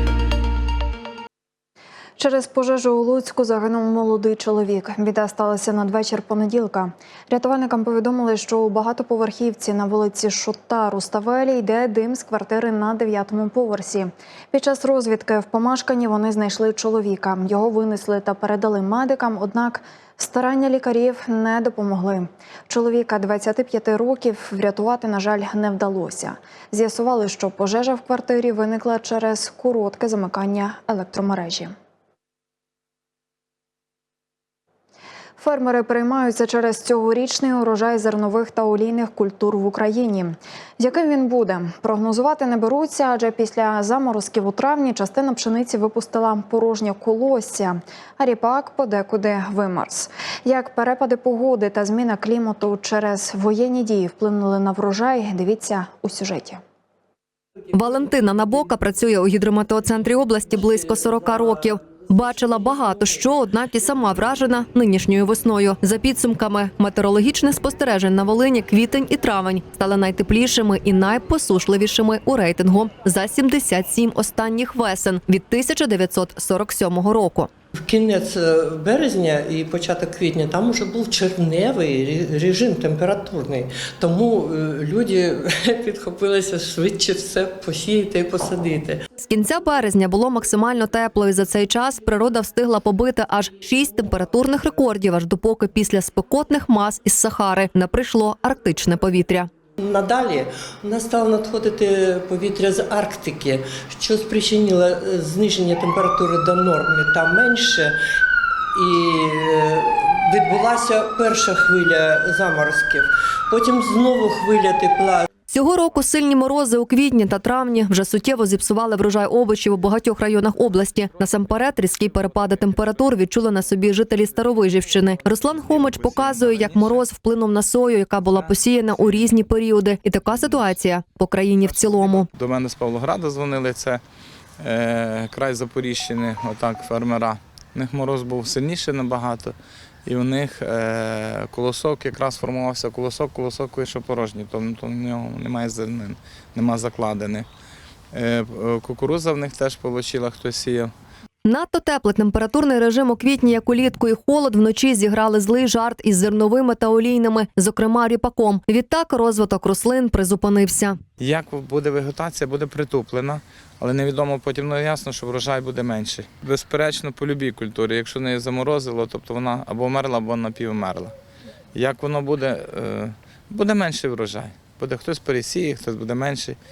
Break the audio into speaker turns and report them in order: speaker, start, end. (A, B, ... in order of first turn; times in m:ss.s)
0:02.2-0:31.7 A
0:35.4-0:56.6 A
0:57.7-1:17.5 B
1:17.8-1:29.0 C
1:29.2-1:39.5 B
1:39.8-1:48.0 C
1:48.7-1:55.3 C
1:55.5-2:12.3 B
2:12.3-2:14.0 D
2:14.6-2:27.5 D
2:28.1-2:30.9 D
2:31.4-2:41.0 B
2:41.2-2:51.1 D
2:51.8-2:56.6 D